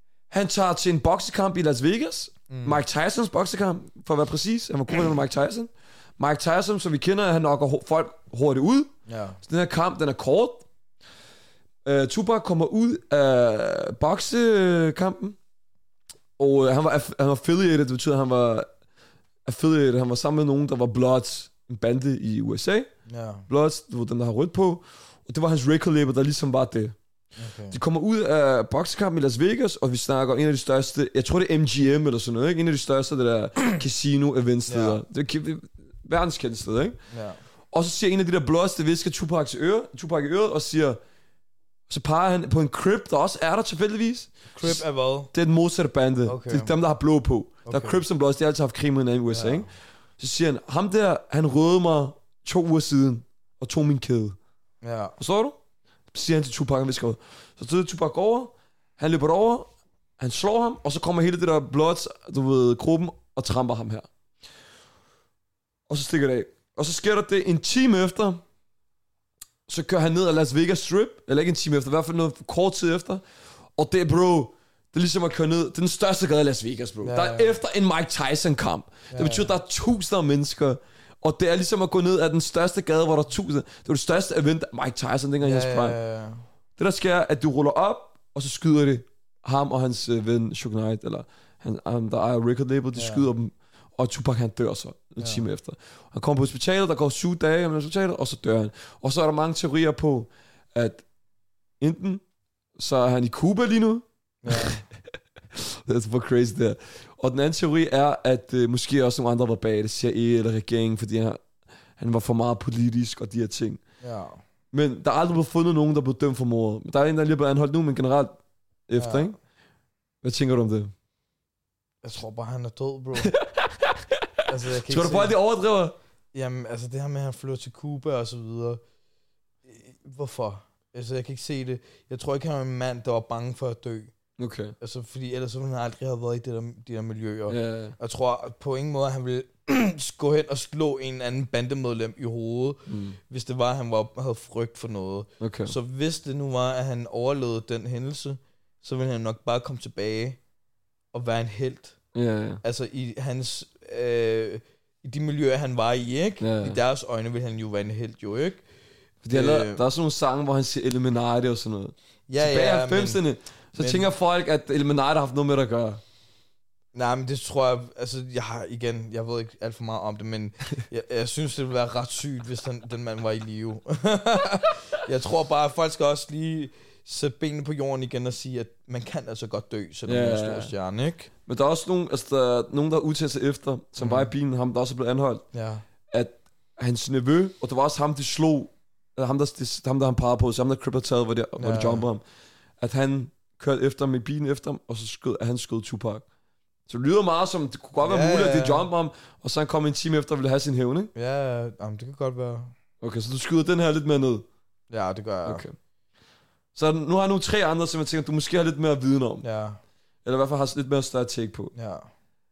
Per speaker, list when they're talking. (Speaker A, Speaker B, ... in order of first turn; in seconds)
Speaker A: 0.3-8.9, 9.4-10.7, 11.8-15.4, 16.4-18.7, 19.4-22.9, 23.5-26.9, 27.7-37.0, 37.7-41.0, 41.9-54.4, 55.2-55.6, 56.1-64.1, 65.9-68.4, 69.7-73.2, 73.8-86.0, 86.8-101.0, 101.8-102.2, 102.8-104.8, 105.5-111.4, 112.0-113.8, 114.7-119.3, 120.2-120.9, 123.2-123.9, 124.9-126.0, 134.4-134.8, 137.5-137.9, 142.9-143.2, 145.4-145.7, 152.1-152.6, 156.4-156.8, 159.2-166.0, 180.1-180.7, 181.5-185.4, 186.1-192.2, 192.8-196.2, 196.9-201.1, 203.0-204.4, 205.4-205.7, 206.7-209.4, 210.2-211.7
Speaker B: 2.5-2.8, 9.1-9.4, 23.1-23.5, 27.4-27.8, 34.7-35.0, 37.1-37.4, 44.5-45.3, 46.2-46.7, 47.6-48.0, 49.3-49.7, 54.8-55.1, 77.0-77.6, 79.1-79.5, 85.4-86.4, 93.0-93.2, 95.2-95.4, 104.4-104.8, 114.0-114.4, 119.0-119.3, 122.0-123.3, 124.5-125.4, 126.3-128.8, 129.7-134.1, 134.8-150.4, 151.1-152.0, 152.6-158.6, 159.3-159.8, 162.3-163.2, 163.8-164.1, 166.9-181.3, 184.0-184.3, 185.5-185.8, 191.6-192.1, 198.0-198.9, 201.1-202.7, 204.9-205.6, 209.4-209.8, 211.7-212.1